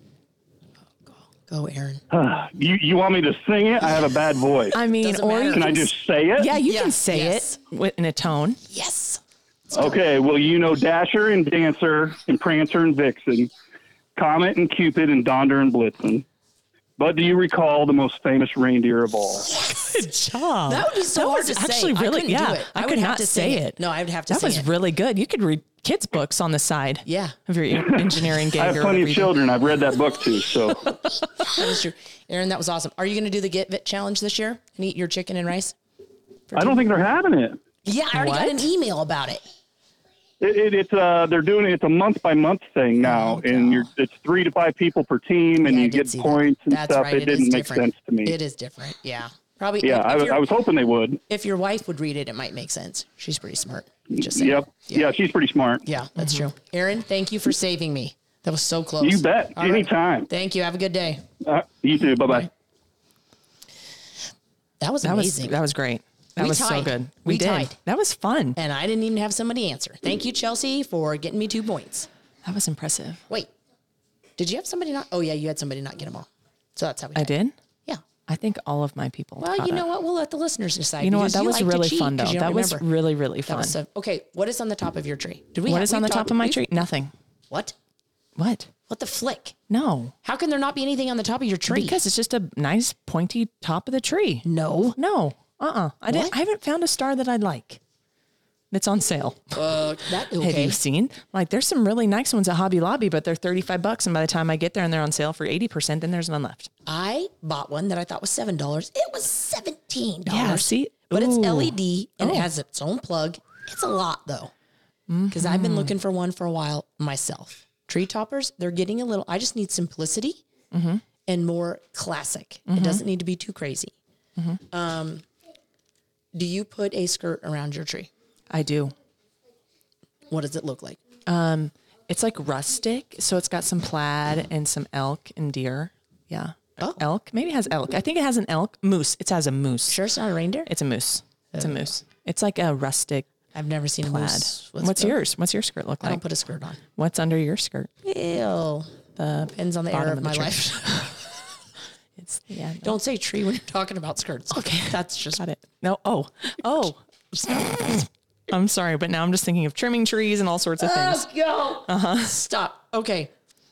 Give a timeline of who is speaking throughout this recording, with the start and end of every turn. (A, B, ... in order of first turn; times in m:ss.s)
0:01.0-0:02.0 A
0:02.1-0:04.8 B
0:04.7-0:05.8 C
0:04.8-0:07.6 A
0:05.5-0:06.5 B
0:06.4-0:08.6 C
0:08.7-0:10.0 A
0:09.7-0:13.5 B
0:14.2-0:16.2 B
0:17.0-0:19.5 B
0:19.4-0:20.1 A
0:19.6-0:29.3 C
0:20.7-0:24.7 A
0:27.0-0:27.4 A
0:27.8-0:30.9 B
0:31.4-0:35.8 A
0:36.5-0:36.9 A
0:36.5-0:37.6 B
0:37.8-0:39.4 A
0:38.1-0:38.6 C
0:40.4-0:48.4 B
0:43.0-0:43.9 A
0:45.6-0:50.5 A
0:49.8-0:51.2 B
0:51.3-0:55.2 A
0:54.1-0:55.9 B
0:55.8-1:01.2 A
0:56.2-0:56.4 C
0:59.0-1:00.3 B
1:01.4-1:02.5 B
1:02.2-1:02.5 A
1:04.8-1:05.6 A
1:05.0-1:08.6 C
1:06.4-1:07.8 A
1:08.6-1:12.1 A
1:12.4-1:13.2 C
1:14.4-1:17.4 A
1:17.2-1:17.6 C
1:18.3-1:19.8 C
1:19.4-1:22.9 A
1:21.0-1:23.8 C
1:23.4-1:26.8 A
1:25.7-1:27.1 C
1:27.5-1:27.8 A
1:28.4-1:28.7 C
1:28.9-1:29.6 A
1:29.7-1:30.1 C
1:30.2-1:32.0 A
1:31.7-1:37.8 C
1:34.4-1:35.0 A
1:36.1-1:36.4 A
1:38.7-1:39.6 C
1:39.6-1:40.8 A
1:40.4-1:46.7 C
1:46.9-1:54.5 A
1:50.3-1:52.5 C
1:55.1-1:56.0 C
1:55.3-2:00.4 A
2:00.7-2:01.0 C
2:01.3-2:03.9 A
2:02.7-2:03.0 C
2:04.7-2:05.2 A
2:06.3-2:08.1 A
2:08.5-2:08.9 C
2:10.3-2:11.0 A
2:11.3-2:20.0 C
2:16.8-2:17.0 A
2:19.9-2:20.7 A
2:20.7-2:23.3 C
2:21.5-2:21.9 A
2:23.5-2:25.2 A
2:24.0-2:26.2 C
2:26.0-2:26.8 A
2:27.0-2:27.9 C
2:28.0-2:31.2 A
2:29.2-2:31.2 C
2:32.2-2:33.0 C
2:32.8-2:35.4 A
2:34.5-2:41.3 C
2:40.8-2:43.3 A
2:41.9-2:42.4 C